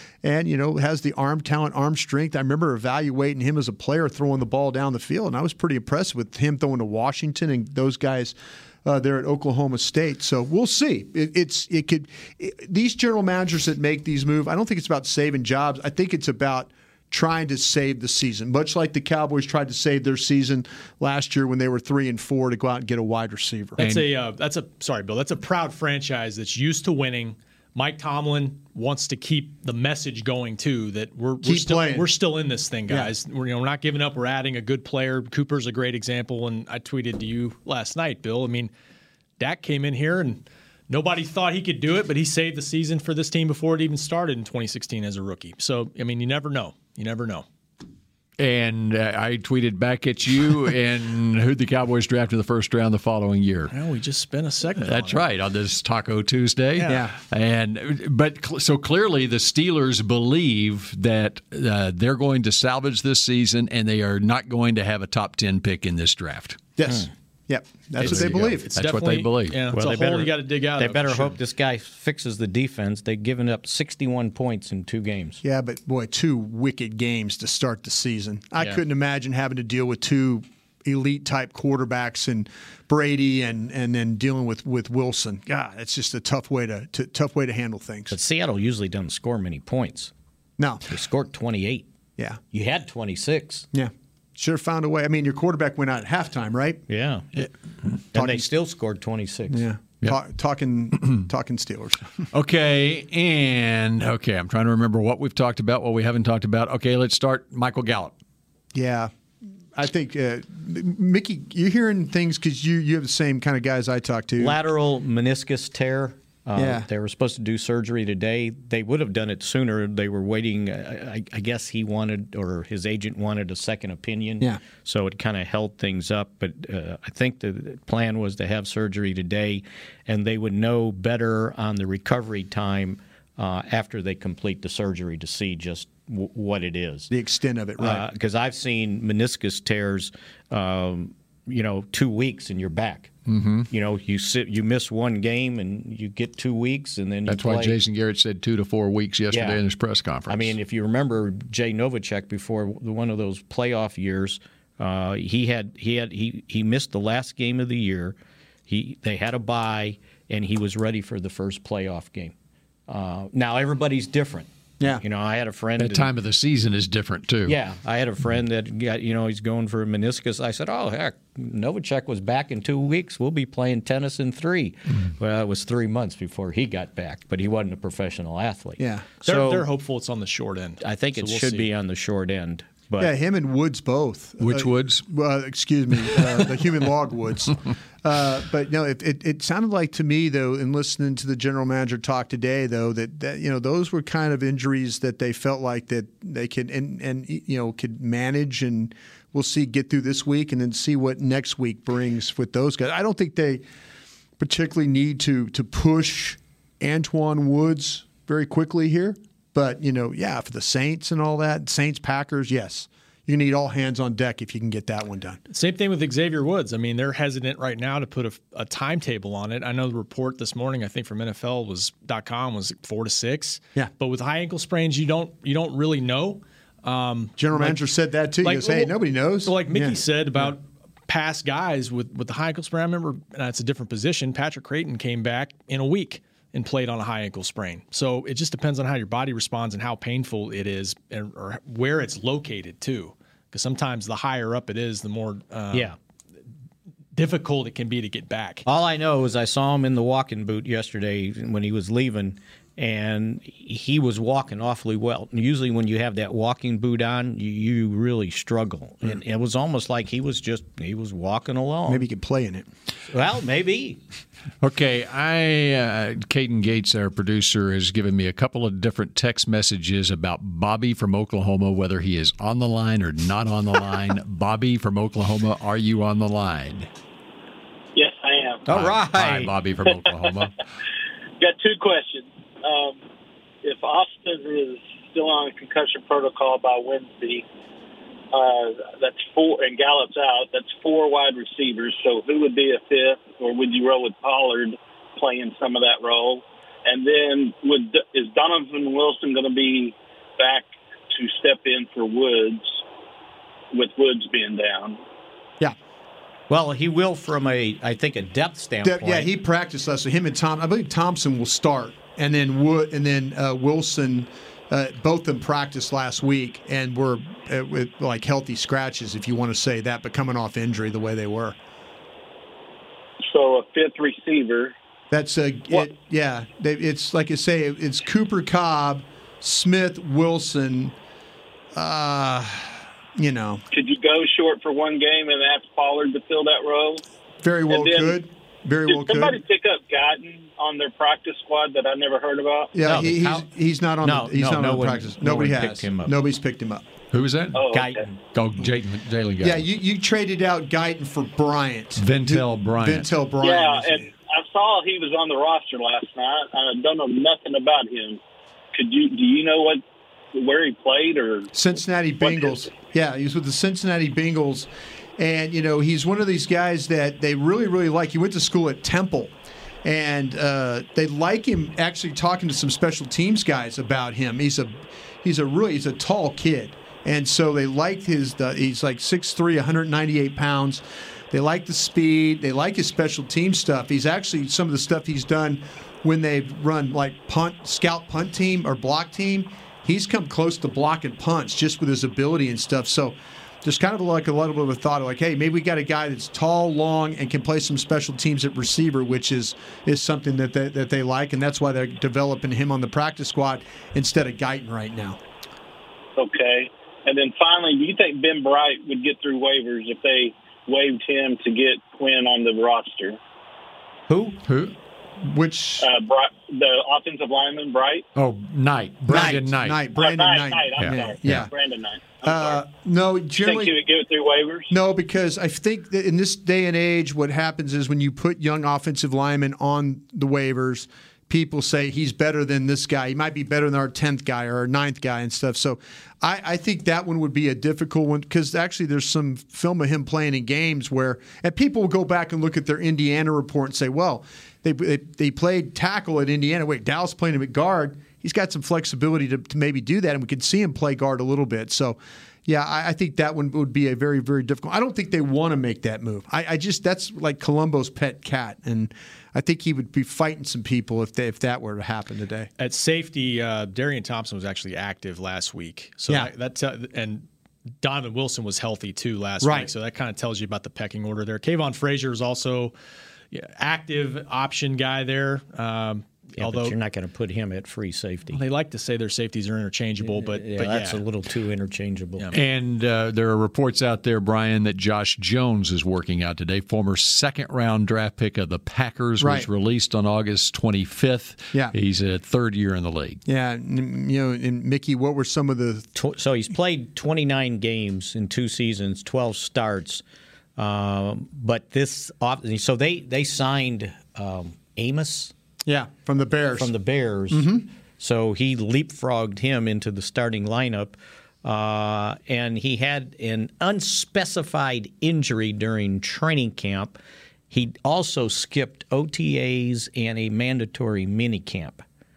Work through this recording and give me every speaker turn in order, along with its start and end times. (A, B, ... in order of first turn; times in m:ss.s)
0:00.2-0:23.8 A
0:23.8-0:38.7 B
0:31.4-0:32.1 A
0:39.4-0:47.4 B
0:48.4-0:53.7 C
0:53.7-0:55.2 B
0:54.8-1:06.6 C
0:56.8-0:57.1 A
1:06.8-1:08.7 A
1:08.0-1:09.6 C
1:08.0-1:11.4 B
1:09.7-1:15.4 D
1:15.4-1:28.1 A
1:28.1-1:30.1 D
1:30.6-1:30.8 A
1:30.9-1:31.9 D
1:32.5-1:33.7 D
1:33.7-1:36.8 A
1:36.9-1:37.4 D
1:38.1-1:39.6 D
1:38.1-1:38.5 A
1:39.5-1:42.2 A
1:42.3-1:48.1 C
1:48.7-1:49.1 A
1:49.7-1:54.6 A
1:54.4-2:17.1 D
1:56.6-1:56.8 A
2:17.1-2:18.1 A
2:17.8-2:23.1 D
2:23.3-2:23.7 C
2:23.7-2:27.8 D
2:27.2-2:30.6 C
2:29.3-2:29.6 D
2:30.3-2:42.3 D
2:42.9-2:46.1 D
2:45.8-2:47.6 C
2:47.4-2:59.6 D
2:58.8-2:59.1 A
2:59.2-3:01.7 B
3:00.8-3:03.1 D
3:03.0-3:23.6 A
3:04.4-3:05.0 C
3:24.4-3:35.4 A
3:35.5-3:47.8 B
3:47.4-3:50.0 A
3:48.4-4:05.9 B
4:07.1-4:08.6 B
4:08.6-4:22.0 D
4:21.9-4:22.7 A
4:23.1-4:24.0 D
4:24.6-4:36.9 C
4:37.9-4:38.6 E
4:38.7-4:39.5 D
4:38.7-4:40.5 C
4:39.9-4:40.2 E
4:41.4-4:43.0 E
4:43.6-4:47.4 E
4:48.3-5:02.8 E
5:03.7-5:05.0 E
5:06.5-5:09.3 D
5:08.8-5:21.6 A
5:23.2-5:24.8 E
5:25.1-5:31.0 A
5:31.7-5:33.6 A
5:33.7-5:37.0 E
5:37.4-5:39.4 A
5:37.7-5:38.2 E
5:38.9-5:42.7 E
5:42.7-5:46.9 A
5:42.8-5:43.5 D
5:44.0-5:46.2 D
5:47.1-5:47.7 C
5:47.5-5:48.0 E
5:47.7-5:48.2 D
5:48.3-5:49.6 C
5:49.4-5:54.1 A
5:52.0-5:53.1 C
5:53.4-5:58.2 E
5:58.7-5:59.8 E
6:00.3-6:01.5 E
6:01.5-6:09.3 A
6:02.2-6:02.6 E
6:09.8-6:45.2 A
6:46.2-6:53.2 E
6:54.1-6:54.4 D
6:54.4-6:54.7 C
6:55.2-6:55.9 A
6:55.8-6:58.0 E
6:58.2-6:59.9 C
6:59.1-7:01.5 A
6:59.1-6:59.4 D
6:59.9-7:02.6 E
7:00.8-7:01.5 C
7:02.2-7:03.8 A
7:03.4-7:04.7 E
7:04.7-7:42.5 A
7:42.6-7:47.2 B
7:47.8-7:52.7 B
7:49.4-7:49.7 A
7:53.3-7:56.8 B
7:56.4-7:58.4 D
7:58.3-8:01.0 B
8:00.0-8:02.3 D
8:02.3-8:13.2 C
8:09.2-8:09.5 A
8:13.3-8:15.9 A
8:15.9-8:20.0 D
8:20.6-8:25.3 D
8:25.6-8:26.7 A
8:26.6-8:37.0 D
8:27.3-8:27.7 A
8:37.5-8:41.8 D